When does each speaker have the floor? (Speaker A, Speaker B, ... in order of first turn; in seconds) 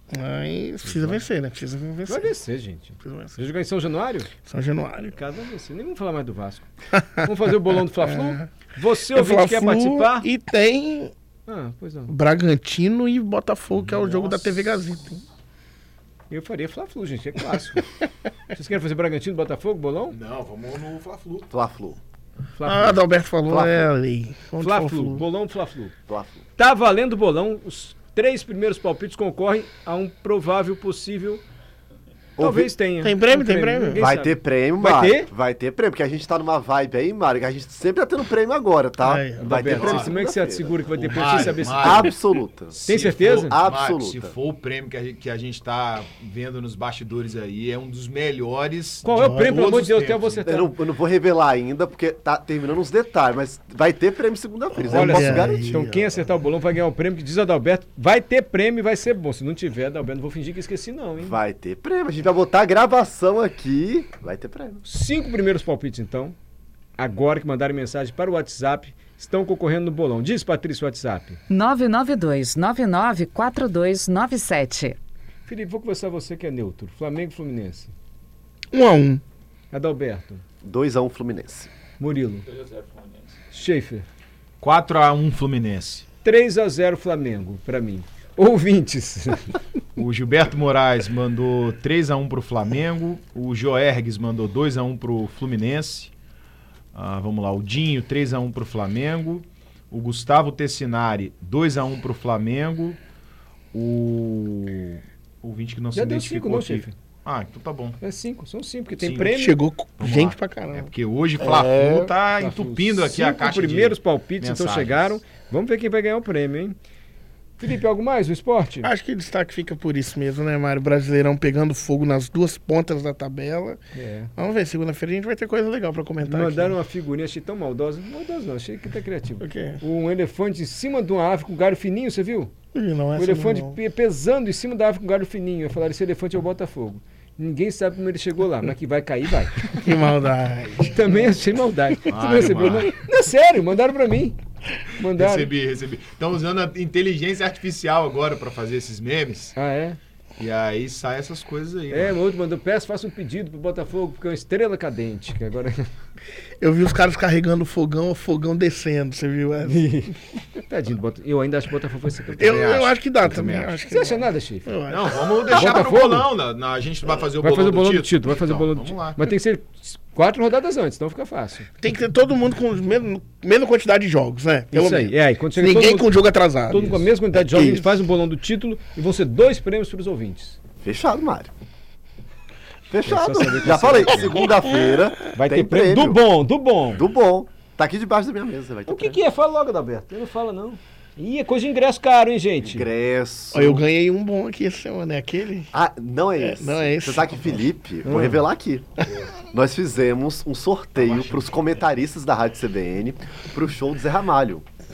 Speaker A: 0.1-2.3, 3.0-3.4, 4.5-5.2, 7.0-7.3, 8.0-8.5, 9.1-11.1, 12.1-15.2, 22.6-25.2, 33.0-34.0, 39.0-39.5, 49.1-49.7, 54.8-56.2, 78.7-79.2, 109.3-110.9, 111.4-112.1, 118.8-123.8, 124.4-126.8, 129.4-129.8, 132.7-133.8, 139.8-141.3, 156.6-160.1, 162.4-165.8, 171.8-178.1, 193.5-195.7, 196.4-197.7
Speaker B: 0.8-1.2, 2.1-4.3, 5.0-10.3, 11.5-12.1, 16.3-18.0, 18.5-20.2, 22.6-23.0, 24.6-25.9, 26.6-31.4, 32.4-35.3, 39.4-42.1, 42.9-43.5, 49.0-50.7, 54.9-61.4, 64.8-66.3, 67.0-71.4, 75.5-77.9, 79.7-80.4, 82.0-82.5, 83.5-84.1, 86.2-89.6, 105.9-106.9, 108.0-109.6, 112.4-116.8, 117.6-118.9, 123.9-124.3, 126.2-132.5, 133.2-139.8, 140.9-144.4, 145.0-145.5, 149.6-150.0, 151.9-155.9, 159.7-162.7, 163.9-164.8, 165.5-166.3, 167.4-171.7, 174.7-176.1, 176.7-180.6, 183.1-184.5, 185.3-187.1, 188.9-192.9, 198.1-198.4
Speaker C: 13.8-14.7, 20.1-21.5, 39.6-40.2, 40.9-50.4, 84.6-86.0, 90.0-96.1, 96.9-103.0, 103.7-108.0, 109.0-109.3, 110.0-115.2, 142.1-142.9, 145.1-149.5, 150.4-152.2, 162.4-163.8, 164.9-169.2, 200.9-201.8
Speaker D: 21.5-22.0, 23.5-23.9, 26.1-26.4, 32.4-32.7, 34.0-42.8, 43.4-44.3, 50.4-55.9, 61.2-64.8, 80.6-81.7, 180.8-181.5, 182.9-186.2, 186.9-189.2, 192.6-193.8, 195.7-198.9, 199.5-204.7
Speaker E: 71.5-75.0